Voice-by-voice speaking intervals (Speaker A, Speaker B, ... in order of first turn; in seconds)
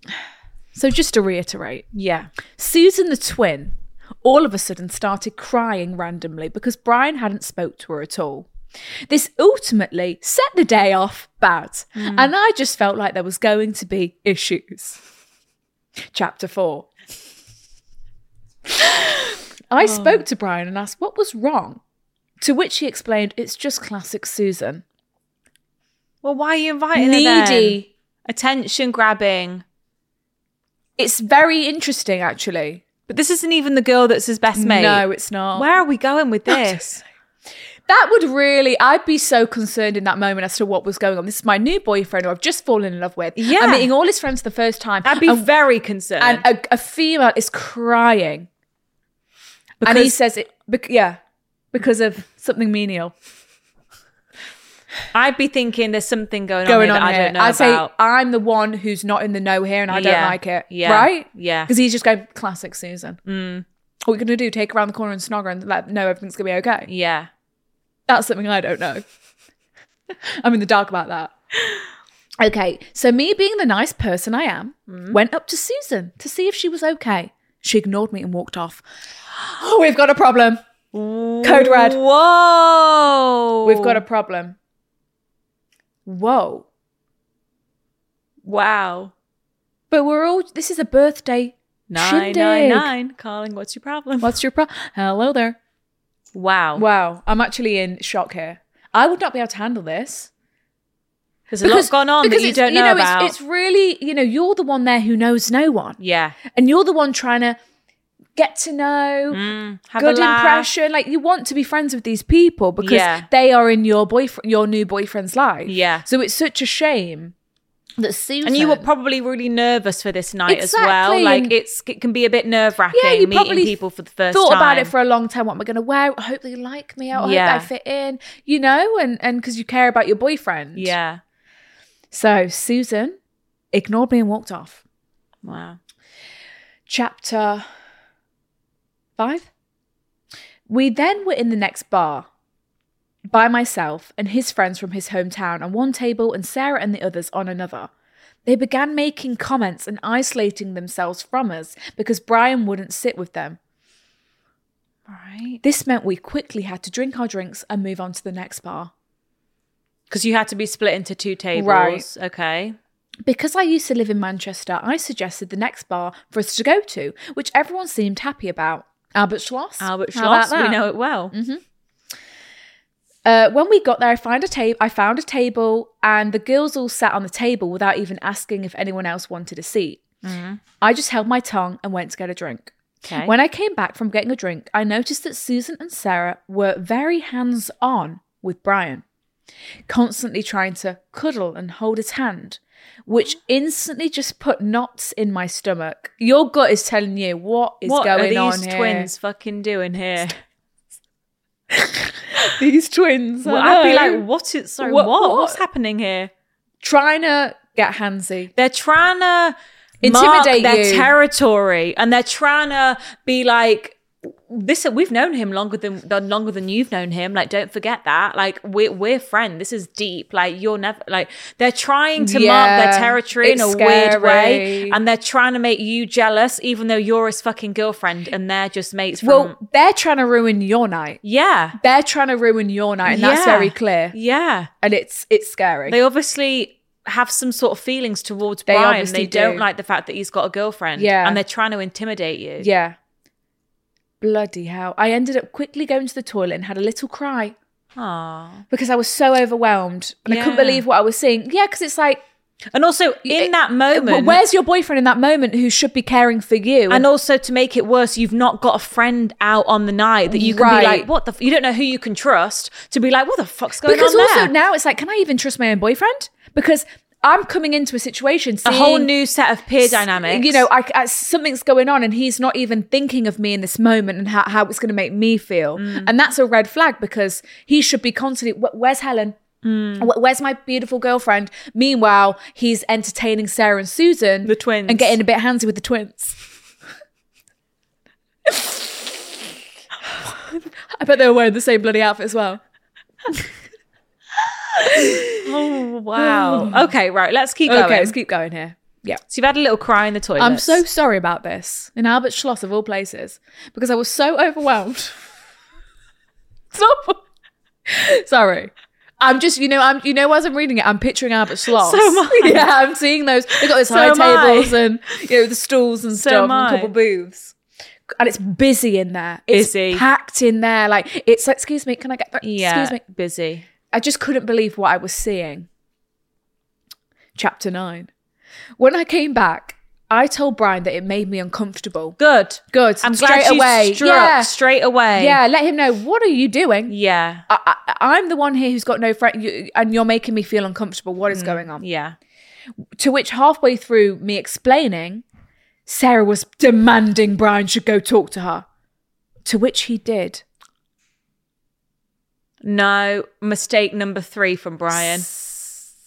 Speaker A: 0.7-1.9, 2.5-8.5, 9.1-15.0, 16.1-16.9, 18.8-21.8, 22.4-24.8, 26.9-27.9, 31.0-32.9, 34.6-35.7, 36.5-36.8, 37.9-45.5, 46.2-48.5, 49.8-51.2, 51.7-53.1, 56.7-63.2, 64.1-66.9, 68.1-69.0, 70.4-71.3, 72.4-78.8, 79.5-80.6, 81.4-82.0, 83.6-84.6, 86.1-86.7, 89.9-92.9, 94.2-95.6, 96.8-100.3, 101.6-106.0, 106.5-107.6, 108.4-109.4, 110.0-117.3, 118.0-118.9, 120.5-121.5, 122.9-123.8, 124.3-130.9, 132.1-133.2, 133.7-134.8, 136.9-137.7, 139.2-139.5, 140.7-142.3, 143.3-147.9, 148.4-153.6, 155.6-158.9, 161.6-162.1, 163.2-171.6, 173.2-180.0, 180.8-189.0, 189.9-199.1, 201.7-204.2, 204.8-205.6, 206.8-208.5, 210.0-211.1, 222.2-225.0, 229.2-231.2, 231.8-234.2, 234.8-236.0, 238.7-239.6, 241.0-241.4, 242.6-243.0, 244.2-247.6, 248.7-252.2, 253.2-257.1, 260.3-261.1, 263.8-269.1, 269.8-279.4, 280.0-286.4, 288.5-289.0, 291.0-292.6, 294.8-295.5, 296.2-296.9, 297.7-299.2, 300.4-305.2, 306.7-307.2, 307.9-317.5, 318.1-323.0, 323.9-325.7, 327.4-328.1, 328.8-332.2, 332.7-334.5, 335.2-336.9, 337.5-341.8, 343.0-345.2, 345.9-348.7, 349.4-350.4, 355.0-355.6
Speaker B: 1.9-2.3, 12.0-12.3, 19.9-20.2, 26.2-29.6, 33.1-37.0, 43.4-43.9, 45.0-46.5, 49.8-50.1, 55.1-57.9, 59.9-61.7, 63.3-63.6, 66.9-67.3, 74.9-75.2, 80.9-84.0, 88.5-89.1, 91.9-94.4, 96.3-96.8, 101.5-103.3, 106.0-106.4, 109.3-110.7, 112.8-113.3, 115.7-116.1, 118.4-124.9, 127.1-127.7, 130.8-131.2, 135.4-135.8, 155.1-155.6, 160.1-162.8, 169.8-171.3, 180.2-180.6, 183.0-183.3, 197.8-200.4, 203.4-206.3, 208.6-229.6, 231.2-231.8, 233.1-234.7, 235.9-242.7, 248.0-248.6, 250.3-250.8, 252.7-254.4, 256.9-264.5, 268.6-270.7, 275.8-276.1, 279.6-280.1, 284.4-285.2, 295.4-298.1, 299.3-300.8, 311.7-312.7, 313.6-314.8, 316.1-316.9, 319.5-320.1, 322.4-323.7, 332.2-335.4, 336.9-337.4, 341.3-342.1, 352.6-355.3